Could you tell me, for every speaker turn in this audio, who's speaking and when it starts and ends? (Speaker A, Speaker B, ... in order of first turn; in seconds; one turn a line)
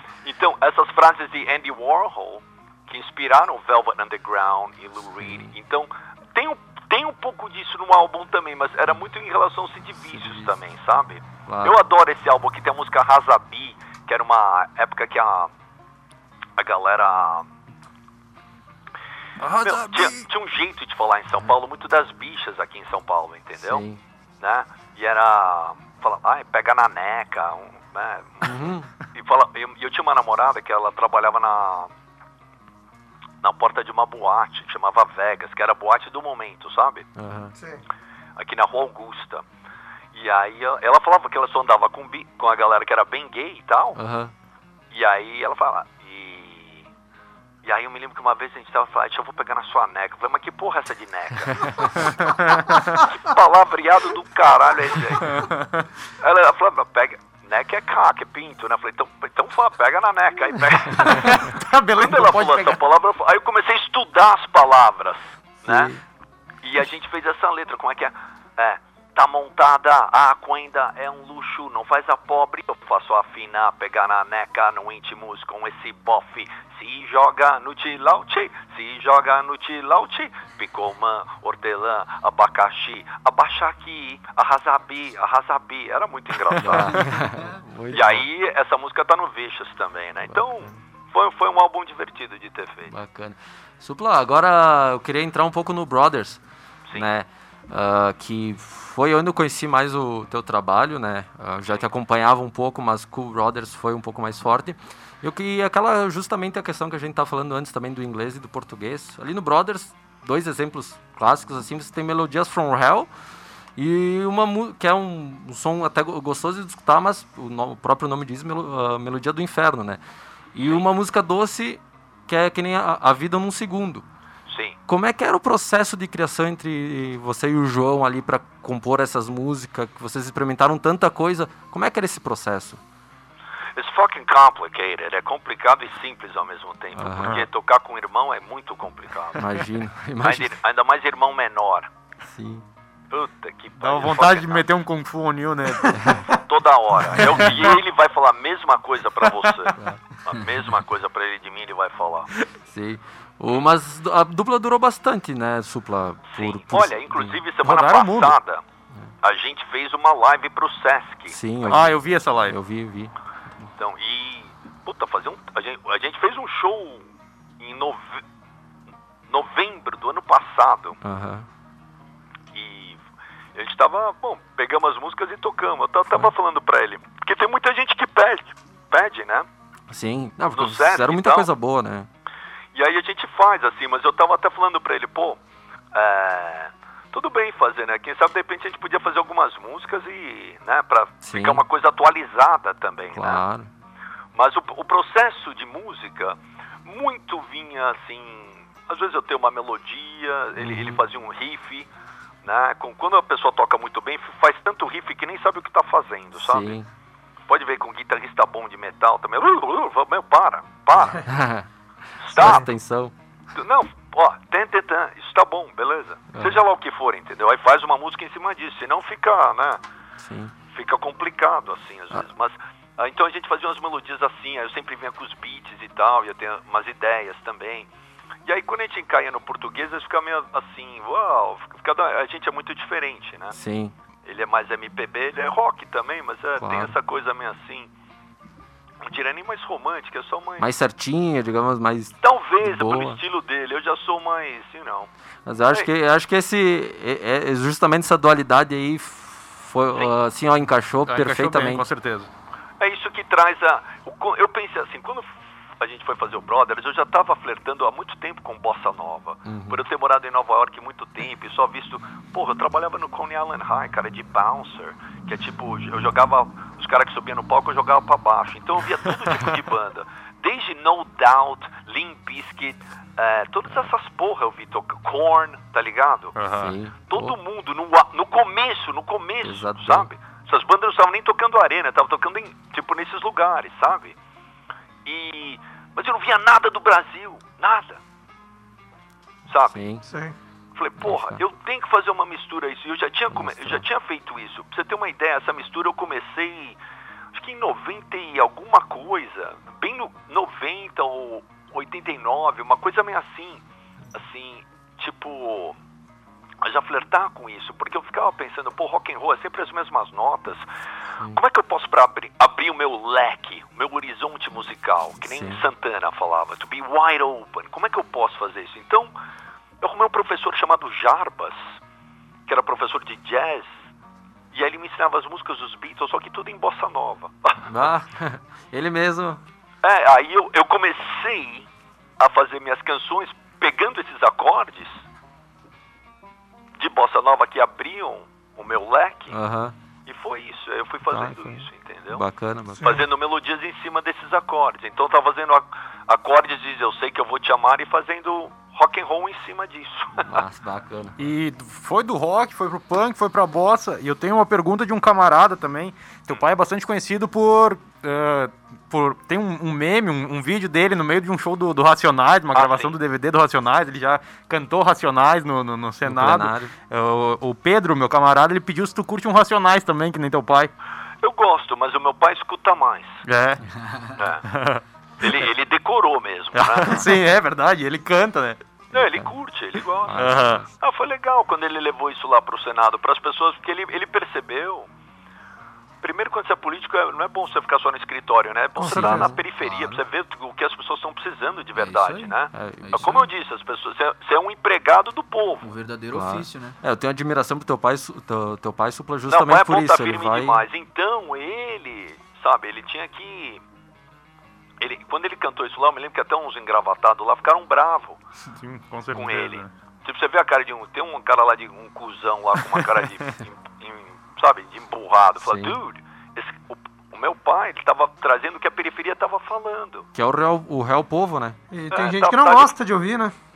Speaker A: 0.2-15.5
Speaker B: 5.2-5.5
Speaker B: 10.2-10.5
Speaker B: 11.5-11.8
Speaker A: 16.6-17.5
Speaker C: 19.4-20.2
Speaker A: 19.6-23.8
Speaker B: 23.6-24.0
Speaker A: 24.4-31.9
Speaker B: 28.4-28.9
Speaker A: 33.4-37.1
Speaker B: 37.2-37.5
Speaker D: 37.5-37.8
Speaker A: 38.4-39.4
Speaker A: 40.1-44.0
Speaker B: 44.0-44.3
Speaker A: 44.9-46.9
Speaker A: 47.6-51.9
Speaker C: 52.2-52.8
Speaker A: 53.1-55.4
Speaker A: 56.2-66.0
Speaker C: 61.1-62.8
Speaker A: 66.6-87.0
Speaker B: 86.6-88.2
Speaker E: 87.2-87.6
Speaker A: 87.9-92.9
Speaker B: 90.3-90.8
Speaker B: 92.9-96.4
Speaker B: 96.9-113.1
Speaker B: 113.8-120.0
Speaker B: 120.5-124.0
Speaker A: 124.5-124.8
Speaker B: 124.9-132.8
Speaker A: 133.8-139.5
Speaker B: 137.0-137.5
Speaker B: 139.4-140.6
Speaker A: 140.2-141.9
Speaker B: 142.3-142.7
Speaker A: 143.1-144.7
Speaker C: 143.8-146.1
Speaker A: 146.5-149.7
Speaker C: 147.2-147.8
Speaker A: 150.3-152.3
Speaker B: 152.7-157.4
Speaker A: 156.3-158.6
Speaker C: 157.6-158.4
Speaker A: 159.2-161.8
Speaker B: 161.3-163.1
Speaker C: 161.7-162.6
Speaker A: 163.8-167.1
Speaker A: 167.6-168.2
Speaker A: 169.3-171.0
Speaker B: 171.0-171.5
Speaker A: 172.5-173.0
Speaker A: 173.6-179.5
Speaker B: 179.9-182.1
Speaker A: 180.5-181.5
Speaker A: 182.7-185.4
Speaker A: 185.9-193.4
Speaker B: 191.2-191.6
Speaker B: 193.2-193.7
Speaker A: 194.4-201.9
Speaker B: 200.6-201.0
Speaker A: 202.4-206.8
Speaker B: 206.4-206.9
Speaker A: 207.5-211.3
Speaker B: 211.1-211.7
Speaker A: 212.2-212.7
Speaker B: 212.3-213.1
Speaker A: 213.6-219.8
Speaker B: 216.3-216.6
Speaker B: 220.2-220.5
Speaker A: 220.7-227.9
Speaker A: 228.5-233.6
Speaker B: 233.5-233.9
Speaker A: 234.3-237.9
Speaker B: 236.6-236.9
Speaker A: 239.0-240.7
Speaker B: 240.6-243.2
Speaker A: 242.2-245.1
Speaker B: 245.5-251.9
Speaker C: 251.1-252.3
Speaker A: 252.8-255.3
Speaker A: 255.8-276.4
Speaker B: 259.5-259.8
Speaker C: 276.4-276.8
Speaker B: 276.6-277.4
Speaker A: 277.1-284.1
Speaker B: 279.4-280.1
Speaker A: 285.1-288.0
Speaker A: 289.5-289.8
Speaker B: 289.7-290.0
Speaker D: 290.1-290.3
Speaker A: 290.8-296.8
Speaker B: 291.0-291.4
Speaker B: 293.3-293.8
Speaker A: 297.3-303.6
Speaker A: 304.1-305.8
Speaker A: 306.6-310.6
Speaker A: 311.3-319.1
Speaker B: 315.2-315.6
Speaker A: 319.8-321.7
Speaker A: 322.5-323.8
Speaker A: 324.5-327.7
Speaker B: 327.7-329.4
Speaker A: 329.8-331.7
Speaker A: 332.2-335.0
Speaker A: 336.8-339.4
Speaker B: 339.3-339.8
Speaker A: 340.1-342.2
Speaker B: 341.1-342.9
Speaker A: 342.8-350.4
Speaker B: 350.2-351.2
Speaker C: 351.2-370.7
Speaker A: 362.5-363.0
Speaker B: 366.1-366.7
Speaker A: 371.2-373.2
Speaker C: 373.2-373.6
Speaker A: 374.2-374.4
Speaker C: 374.5-375.3
Speaker A: 375.2-377.1
Speaker C: 376.6-378.6
Speaker A: 378.9-384.9
Speaker B: 378.9-379.3
Speaker B: 380.1-380.7
Speaker C: 380.1-380.6
Speaker A: 386.0-395.6
Speaker D: 388.8-389.4
Speaker B: 388.9-389.4
Speaker E: 391.8-393.1
Speaker B: 392.5-393.2
Speaker E: 395.6-396.8
Speaker B: 396.1-400.6
Speaker A: 399.3-403.6
Speaker A: 404.8-408.2
Speaker C: 408.6-409.7
Speaker A: 409.1-420.1
Speaker B: 415.4-415.8
Speaker B: 420.1-421.6
Speaker D: 421.7-423.3
Speaker A: 421.9-422.8